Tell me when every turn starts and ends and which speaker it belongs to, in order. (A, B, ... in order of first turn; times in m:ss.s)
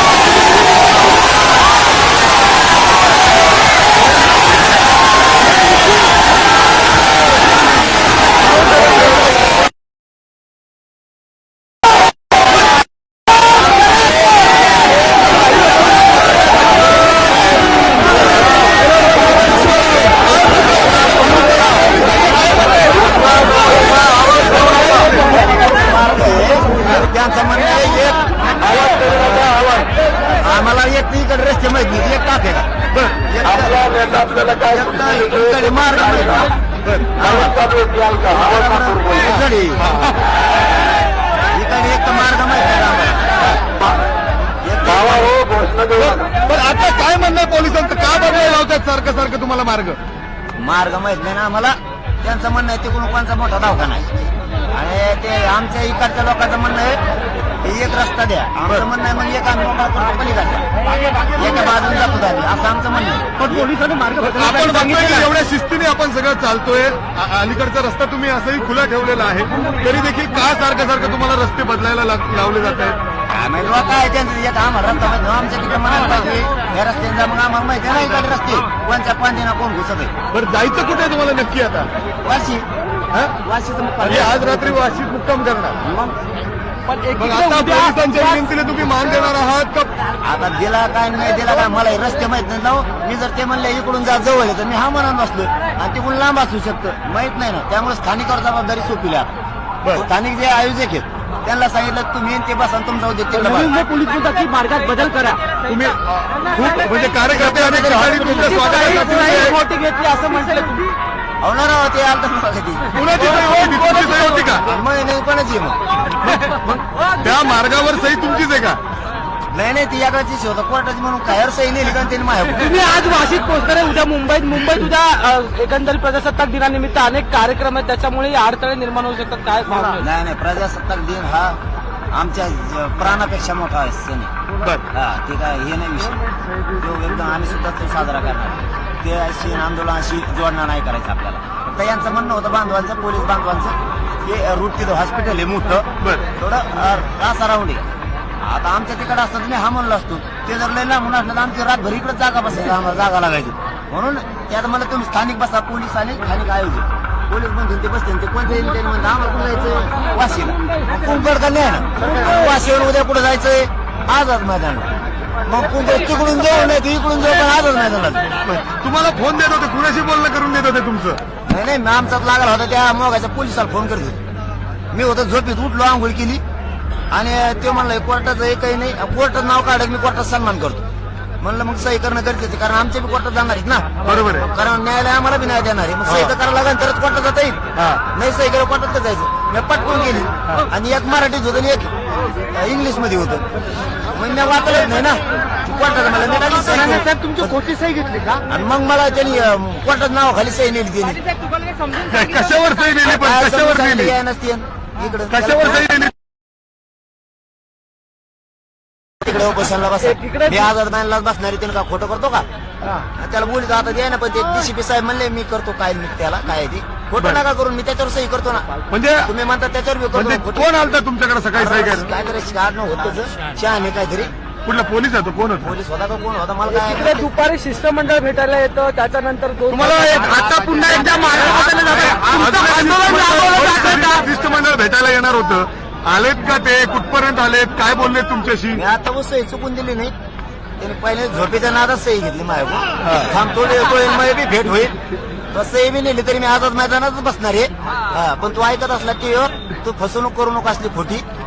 0:23.0-0:29.2 A
0:24.3-0:25.0 B
0:30.3-0:36.6 A
0:37.1-0:39.9 A
0:41.5-0:43.3 A
0:44.6-0:45.6 A
0:45.8-0:50.0 B
0:50.6-0:54.1 A
0:54.7-0:57.0 A
0:57.6-1:00.7 A
1:01.3-1:03.6 A
1:03.4-1:05.3 C
1:04.2-1:13.0 B
1:13.3-1:20.1 A
1:20.3-1:21.9 B
1:22.2-1:22.7 A
1:23.4-1:24.8 A
1:24.0-1:25.8 B
1:25.8-1:26.1 A
1:26.9-1:28.4 C
1:27.1-1:30.0 B
1:30.2-1:39.3 A
1:39.9-1:43.7 A
1:43.3-1:45.7 C
1:45.6-1:49.6 B
1:47.4-1:50.9 C
1:51.4-1:52.9 A
1:52.9-1:54.7 B
1:53.1-1:54.6 C
1:54.6-1:55.8 A
1:56.2-1:58.8 B
1:59.5-2:02.8 A
2:02.6-2:10.0 C
2:10.0-2:11.6 A
2:12.1-2:14.3 A
2:14.9-2:27.8 A
2:28.4-2:44.9 A
2:45.4-2:48.3 A
2:48.4-2:51.2 B
2:51.5-2:54.2 A
2:54.9-2:56.4 A
2:57.1-3:00.8 A
3:01.4-3:11.9 A
3:04.0-3:04.5 B
3:06.0-3:06.3 B
3:12.5-3:13.4 A
3:14.1-3:17.6 A
3:16.7-3:18.4 C
3:18.5-3:21.2 A
3:22.0-3:24.2 B
3:23.1-3:25.9 A
3:25.3-3:26.1 B
3:29.2-3:32.4 A
3:30.0-3:30.7 C
3:33.1-3:40.7 A
3:38.9-3:39.3 B
3:40.1-3:42.1 B
3:41.6-3:44.3 A
3:44.7-3:45.7 B
3:45.6-3:47.3 A
3:46.7-3:54.2 C
3:49.7-3:58.8 B
3:58.7-4:00.1 A
4:00.8-4:05.0 A
4:05.5-4:11.2 A